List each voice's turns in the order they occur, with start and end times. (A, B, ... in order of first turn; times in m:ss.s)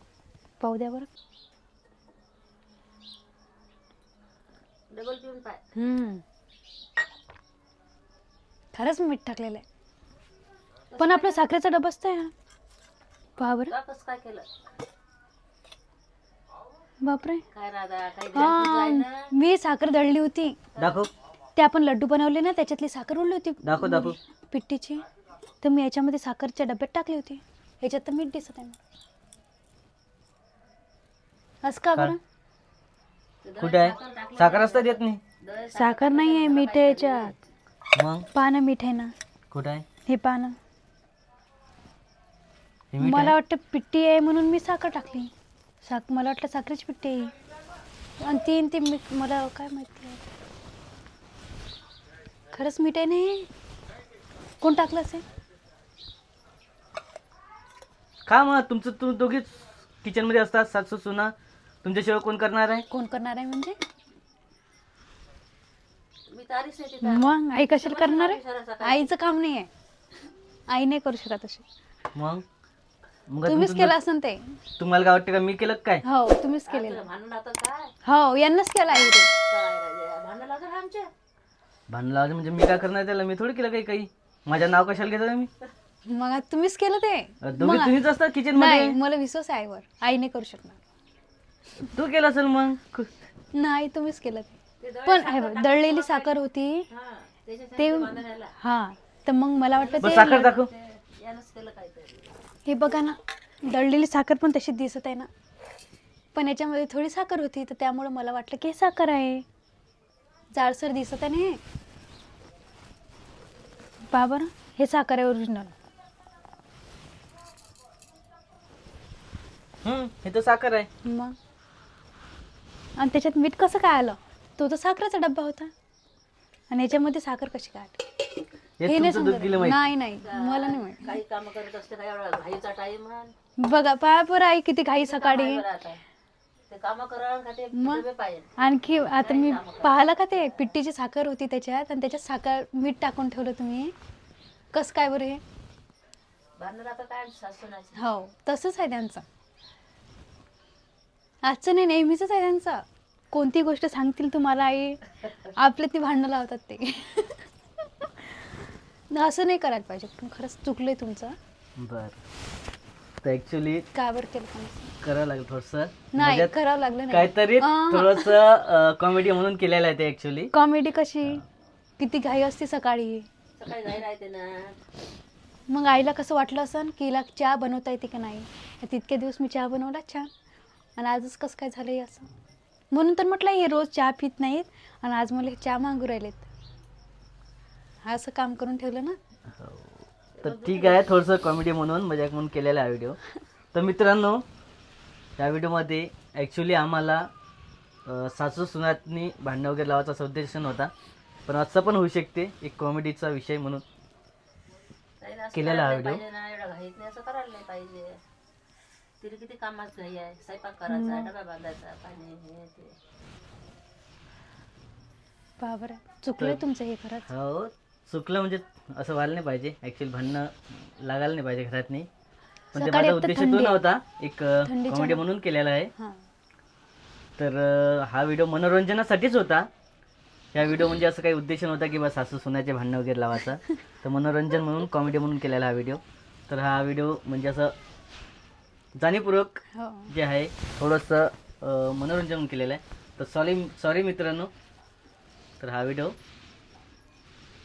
0:00.6-0:01.1 A
0:04.9-0:05.6 B
0:05.8-0:06.2 A
0:08.7-0:09.6 A
0:10.9-0:11.5 B
0:11.0-0:12.3 A
0:13.4-0:13.7 A
0:13.7-0:14.5 B
0:17.0-0:17.4 A
0:17.5-0:19.3 B
0:18.3-0:20.6 A
0:20.8-0:21.1 C
0:21.6-0:25.0 A
0:23.6-0:24.2 C
0:25.6-0:28.8 A
0:31.6-0:32.2 A
0:33.4-0:37.4 B
0:33.6-0:35.2 C
0:35.7-0:37.3 A
0:37.9-0:38.3 C
0:38.3-0:39.1 A
0:39.5-0:39.8 C
0:40.1-0:40.6 A
0:42.9-0:43.4 C
0:43.0-0:45.3 A
0:45.8-0:47.3 A
0:48.2-0:50.3 A
0:52.5-0:53.5 A
0:54.6-0:55.2 A
0:58.3-1:02.9 C
1:02.9-1:03.8 A
1:06.3-1:09.1 B
1:07.0-1:09.7 A
1:10.7-1:11.6 A
1:12.1-1:12.4 C
1:13.3-1:14.0 C
1:13.4-1:14.6 A
1:14.8-1:16.0 C
1:16.0-1:17.1 A
1:16.7-1:17.9 B
1:18.0-1:19.3 A
1:18.9-1:21.1 B
1:21.9-1:25.5 C
1:26.1-1:28.0 A
1:27.4-1:29.0 C
1:28.5-1:30.8 A
1:31.8-1:33.1 C
1:33.5-1:36.9 A
1:34.8-1:38.6 B
1:37.8-1:40.5 A
1:39.7-1:42.4 B
1:40.0-1:40.7 C
1:42.6-1:45.3 A
1:46.3-1:49.4 A
1:50.5-1:51.6 A
1:54.1-1:55.7 A
1:59.8-2:00.9 C
2:01.0-2:01.4 A
2:03.0-2:05.7 A
2:06.7-2:08.2 A
2:08.8-2:09.8 C
2:08.8-2:11.2 A
2:10.2-2:13.3 B
2:13.6-2:15.6 A
2:14.9-2:16.0 B
2:16.7-2:20.7 B
2:17.7-2:18.0 A
2:18.6-2:23.9 A
2:24.7-2:25.4 A
2:26.6-2:28.0 B
2:28.0-2:29.2 A
2:31.4-2:37.5 A
2:38.0-2:38.6 A
2:39.1-2:41.4 A
2:41.8-2:42.2 C
2:43.2-2:43.9 C
2:43.9-2:44.9 A
2:45.0-2:46.6 C
2:46.1-2:48.4 A
2:47.1-2:50.5 C
2:50.5-2:51.4 A
2:52.0-2:53.3 A
2:53.6-2:54.8 B
2:55.7-3:00.3 A
3:01.0-3:02.3 A
3:02.9-3:06.5 A
3:08.0-3:09.2 A
3:09.5-3:13.2 C
3:10.4-3:11.0 B
3:13.7-3:14.4 C
3:15.4-3:17.3 C
3:18.0-3:20.9 C
3:21.5-3:23.8 C
3:25.2-3:28.2 B
3:25.5-3:26.2 C
3:29.2-3:33.0 B
3:30.9-3:31.3 A
3:35.6-3:37.3 A
3:37.3-3:42.1 C
3:42.7-3:45.9 C
3:42.7-3:43.9 A
3:44.6-3:45.3 A
3:47.4-3:49.7 C
3:50.5-3:57.8 C
3:59.0-4:04.5 C
3:59.7-4:00.1 A
4:05.6-4:06.2 C